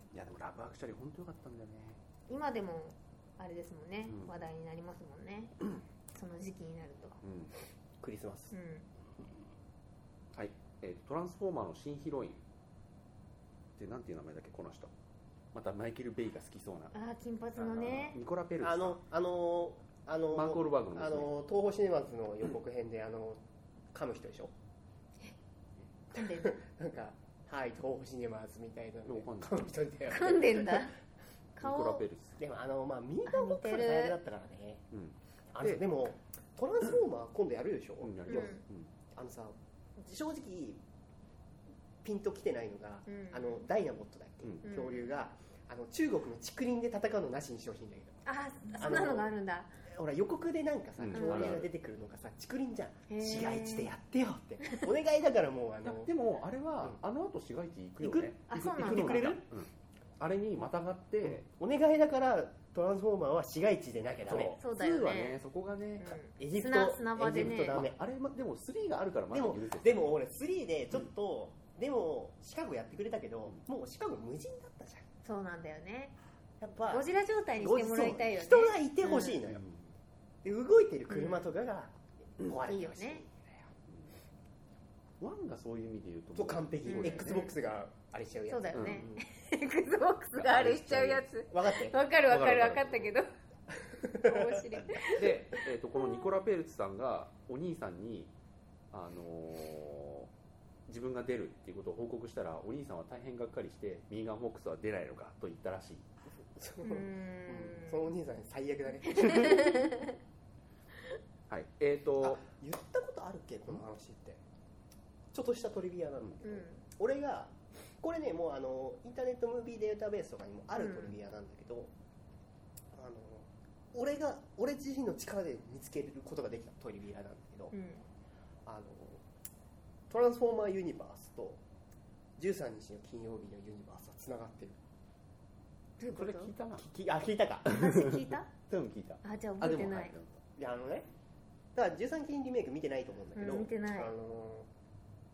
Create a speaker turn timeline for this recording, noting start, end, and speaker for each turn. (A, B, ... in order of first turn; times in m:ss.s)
0:00.1-0:02.0 A
0:02.3-0:05.6 B
0:04.1-0:04.3 A
0:06.2-0:07.2 B
0:07.2-0:07.5 A
0:08.0-0:08.5 C
0:08.5-0:08.9 B
0:10.3-0:12.4 A
0:13.8-0:14.9 A
0:15.5-0:16.9 A
0:16.9-0:18.2 B
0:17.6-0:18.0 C
0:17.8-0:19.0 A
0:18.6-0:23.4 C
0:20.3-0:21.3 A
0:23.9-0:24.5 C
0:26.1-0:26.6 B
0:26.2-0:30.9 C
0:29.1-0:29.6 A
0:30.1-0:31.0 B
0:31.6-0:32.4 A
0:31.7-0:34.8 C
0:33.3-0:34.2 B
0:34.9-0:35.8 A
0:35.5-0:38.6 C
0:38.0-0:38.9 A
0:38.3-0:38.6 B
0:39.1-0:40.8 C
0:42.0-0:49.3 C
0:43.1-0:43.6 B
0:44.4-0:44.7 A
0:44.6-0:45.2 B
0:48.2-0:49.7 B
0:49.9-0:56.1 C
0:51.0-0:51.7 A
0:51.1-0:51.6 B
0:53.1-0:53.9 B
0:55.8-1:01.4 A
0:58.0-0:59.4 C
0:58.5-0:59.4 B
1:01.2-1:04.6 C
1:04.2-1:06.2 A
1:04.6-1:05.4 B
1:06.0-1:07.8 B
1:06.1-1:08.0 C
1:07.3-1:10.1 A
1:09.3-1:15.1 C
1:15.2-1:16.2 B
1:16.6-1:19.6 C
1:16.9-1:19.4 B
1:19.4-1:19.9 A
1:20.4-1:23.6 C
1:21.1-1:21.5 B
1:22.6-1:23.2 B
1:25.2-1:27.4 A
1:26.4-1:29.2 C
1:26.9-1:27.5 B
1:28.5-1:33.3 B
1:28.8-1:29.1 A
1:30.4-1:31.2 A
1:30.5-1:32.0 C
1:32.3-1:33.1 A
1:33.8-1:34.6 C
1:34.2-1:36.3 B
1:35.0-1:38.3 A
1:38.9-1:40.3 A
1:40.9-1:46.0 A
1:46.6-1:49.9 C
1:46.8-1:48.1 B
1:49.1-1:50.2 B
1:51.5-1:52.4 A
1:52.2-1:54.4 C
1:55.3-2:01.9 C
1:56.4-1:56.8 B
2:00.8-2:01.1 B
2:02.9-2:07.7 C
2:07.7-2:08.0 B
2:08.6-2:09.2 C
2:10.1-2:11.6 C
2:12.4-2:14.8 C
2:16.0-2:16.5 B
2:16.1-2:16.9 A
2:16.8-2:17.7 C
2:17.6-2:18.5 B
2:17.7-2:20.4 A
2:19.2-2:20.1 B
2:20.6-2:21.1 C
2:21.8-2:24.7 C
2:23.3-2:24.1 B